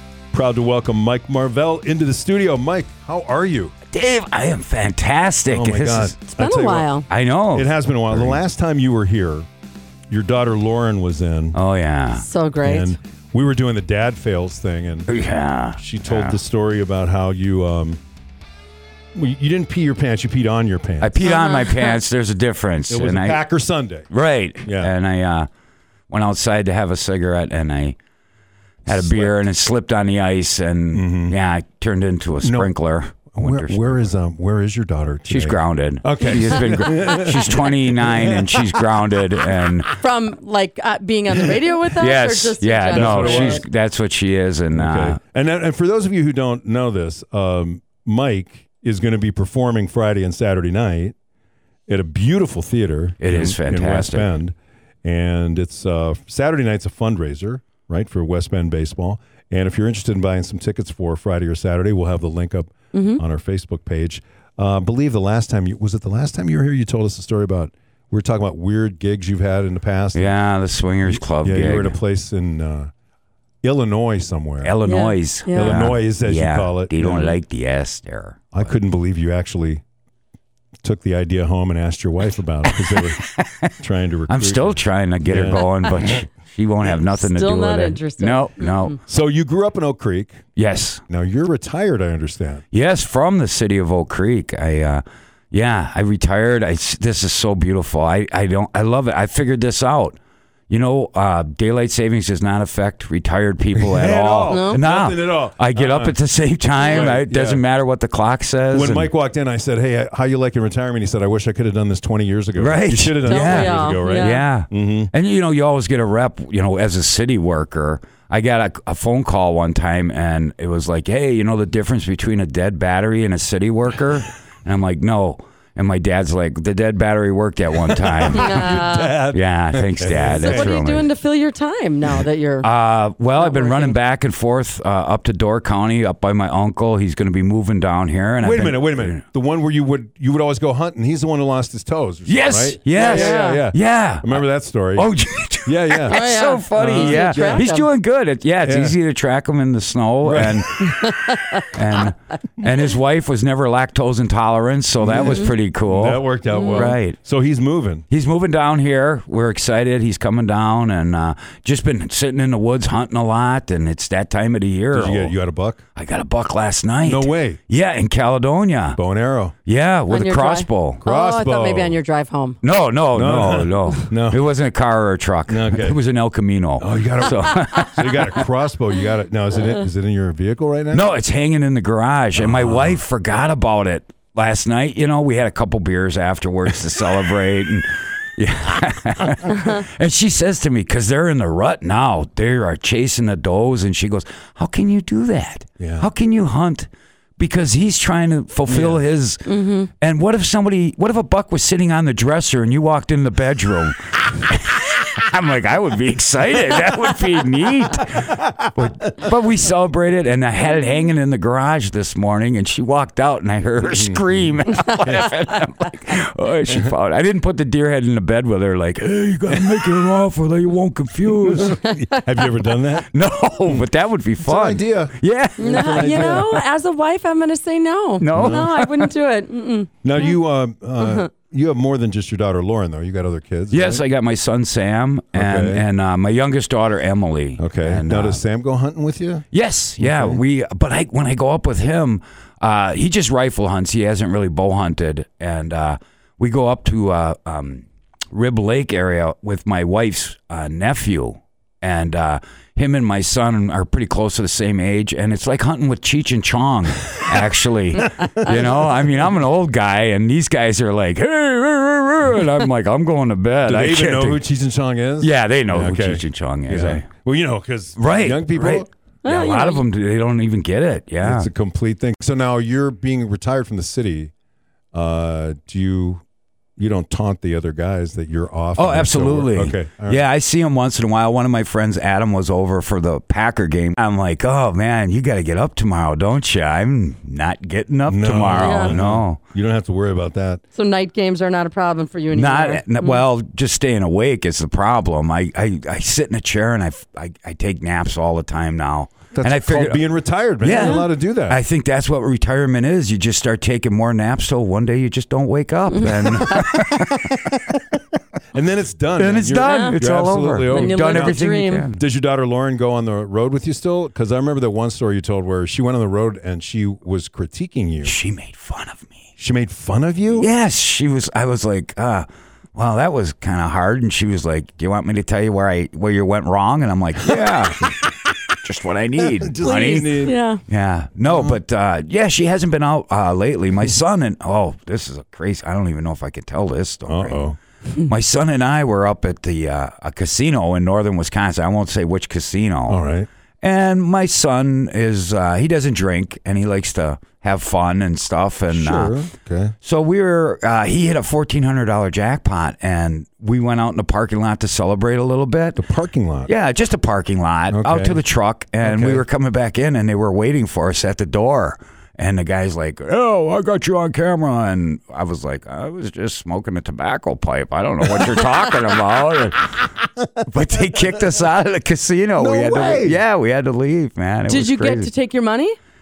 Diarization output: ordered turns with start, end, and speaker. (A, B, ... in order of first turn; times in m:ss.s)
0:00.3-0:03.7 A
0:03.9-0:06.2 B
0:05.5-0:06.9 A
0:06.3-0:07.1 C
0:07.1-0:08.4 B
0:07.5-0:09.5 A
0:10.1-0:11.6 A
0:11.5-0:12.2 B
0:12.2-0:13.0 C
0:12.6-0:15.1 A
0:15.1-0:16.4 B
0:15.8-0:18.0 A
0:19.1-0:21.2 A
0:21.0-0:23.4 B
0:21.2-0:22.0 C
0:22.9-0:24.1 A
0:24.1-0:25.5 B
0:24.6-0:24.9 A
0:26.1-0:28.0 B
0:28.8-0:29.4 A
0:28.8-0:34.1 B
0:30.9-0:31.4 A
0:32.4-0:32.7 A
0:33.3-0:39.7 A
0:35.3-0:39.9 B
0:36.9-0:37.3 C
0:40.0-0:43.6 C
0:42.0-0:45.2 B
0:42.9-0:43.6 A
0:44.7-0:51.1 A
0:51.9-1:10.4 A
0:53.2-0:54.3 B
1:02.9-1:03.2 C
1:10.1-1:12.0 B
1:11.0-1:12.9 A
1:13.6-1:14.8 A
1:14.6-1:18.8 B
1:14.8-1:15.9 C
1:15.5-1:17.4 A
1:18.5-1:19.8 A
1:20.8-1:23.2 A
1:22.7-1:23.7 B
1:23.8-1:26.1 A
1:24.3-1:29.0 B
1:26.9-1:28.9 C
1:29.1-1:30.4 A
1:30.6-1:31.0 B
1:31.1-1:32.6 A
1:32.7-1:40.2 B
1:40.7-1:49.1 B
1:43.7-1:46.2 A
1:44.5-1:44.8 C
1:46.7-1:47.6 A
1:46.8-1:47.2 C
1:48.7-1:55.1 A
1:52.6-2:11.1 B
1:53.2-1:54.4 C
2:08.0-2:10.8 A
2:08.3-2:09.2 C
2:10.3-2:12.7 C
2:12.6-2:19.2 B
2:13.3-2:14.0 C
2:18.4-2:25.1 A
2:22.2-2:31.0 B
2:22.9-2:23.6 C
2:25.6-2:26.2 A
2:26.0-2:27.9 C
2:26.7-2:27.7 A
2:28.6-2:29.0 A
2:30.2-2:30.7 A
2:30.9-2:31.6 C
2:31.7-2:37.2 B
2:35.0-2:38.0 A
2:35.2-2:35.5 C
2:36.5-2:36.9 C
2:38.1-2:45.4 B
2:44.9-2:45.8 A
2:45.9-2:49.0 B
2:47.0-2:47.6 A
2:49.0-2:49.5 A
2:49.6-2:51.0 B
2:50.1-2:52.6 C
2:51.0-2:52.0 A
2:52.6-2:58.4 B
2:53.1-2:54.4 A
2:55.5-2:56.0 A
2:56.8-3:01.1 A
3:00.9-3:41.8 B
3:02.4-3:03.0 A
3:15.8-3:16.1 A
3:18.7-3:19.0 A
3:19.4-3:19.9 C
3:33.9-3:34.2 A
3:35.0-3:35.3 A
3:39.5-3:40.1 A
3:41.4-3:43.1 A
3:43.0-3:46.6 B
3:44.4-3:46.5 A
3:45.6-3:50.3 C
3:48.2-3:49.1 B
3:48.3-3:48.7 A
3:50.0-3:54.0 A
3:53.7-3:58.4 B
3:55.3-3:55.8 A
3:57.6-3:59.5 A
3:59.5-4:24.4 B
4:00.0-4:00.4 A
4:18.0-4:19.2 A
4:23.6-4:28.9 A
4:25.2-4:27.1 B
4:28.0-4:31.5 B
4:29.2-4:29.9 C
4:31.2-4:34.3 A
4:34.9-4:36.2 A
4:36.8-4:40.2 A
4:38.7-4:49.4 B
4:48.0-4:50.6 A
4:48.5-4:49.0 C
4:50.7-4:53.2 C
4:52.3-5:00.0 B
4:59.3-5:01.6 A
5:00.6-5:07.8 B
5:00.7-5:01.1 C
5:05.9-5:06.6 C
5:08.5-5:11.4 A
5:09.2-5:12.0 B
5:09.6-5:10.0 C
5:10.7-5:11.9 C
5:11.9-5:18.2 A
5:18.0-5:19.2 B
5:19.4-5:20.5 A
5:20.3-5:28.0 B
5:27.2-5:27.9 A
5:28.6-5:43.0 B
5:29.2-5:30.4 A
5:29.6-5:30.6 C
5:31.2-5:31.6 A
5:37.1-5:37.6 A
5:42.9-5:43.3 A
5:43.6-5:49.1 B
5:48.7-5:49.8 A
5:49.8-5:55.8 B
5:55.8-5:56.5 A
5:56.4-6:09.9 B
5:57.7-5:58.2 A
5:58.8-5:59.2 A
6:10.4-6:15.1 B
6:12.4-6:13.2 A
6:14.4-6:15.8 C